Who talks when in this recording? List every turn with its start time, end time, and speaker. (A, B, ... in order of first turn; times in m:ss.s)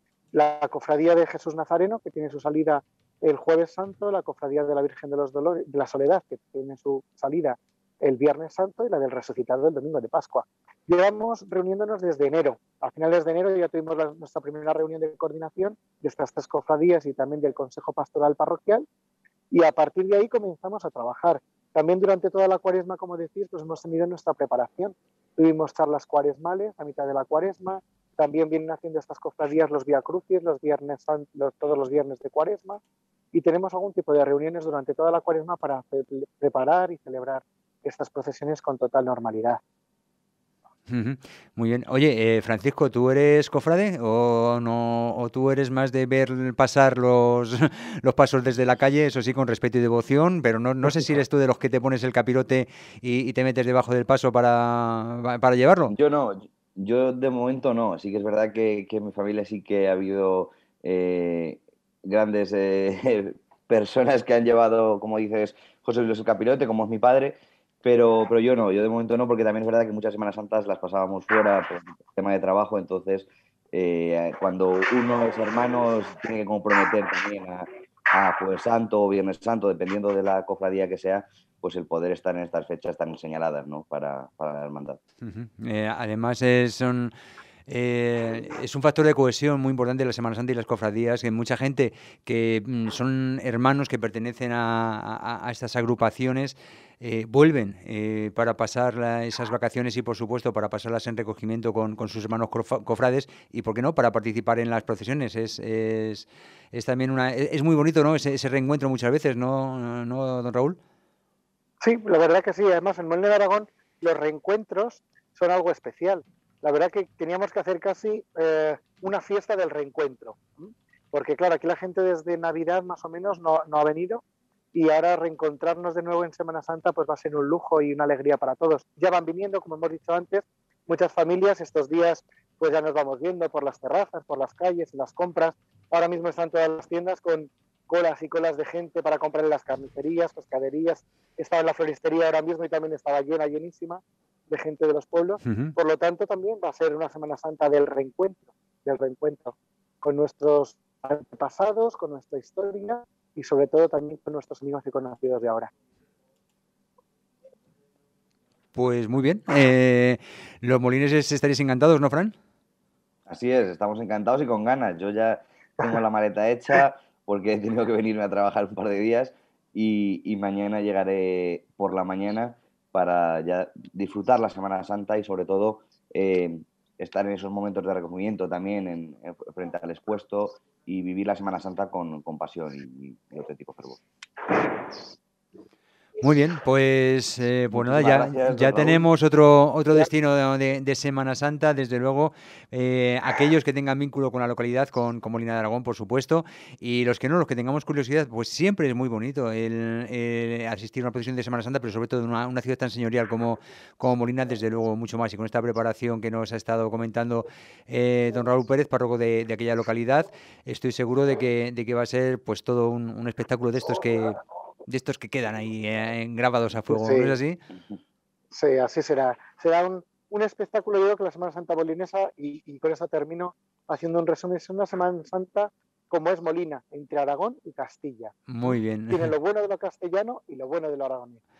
0:00.3-0:18.8 A
0:19.5-0:32.8 A
0:33.3-0:39.6 A
0:40.9-0:55.9 B
0:55.9-1:25.0 C
1:25.2-1:27.1 B
1:27.7-1:50.8 B
1:51.8-2:35.7 A
2:25.4-2:25.7 B
2:38.7-2:42.3 B
2:43.3-3:04.0 C
3:06.2-3:37.6 B
3:07.7-3:09.0 C
3:36.9-3:37.4 A
3:38.5-3:51.4 A
3:48.5-3:49.3 B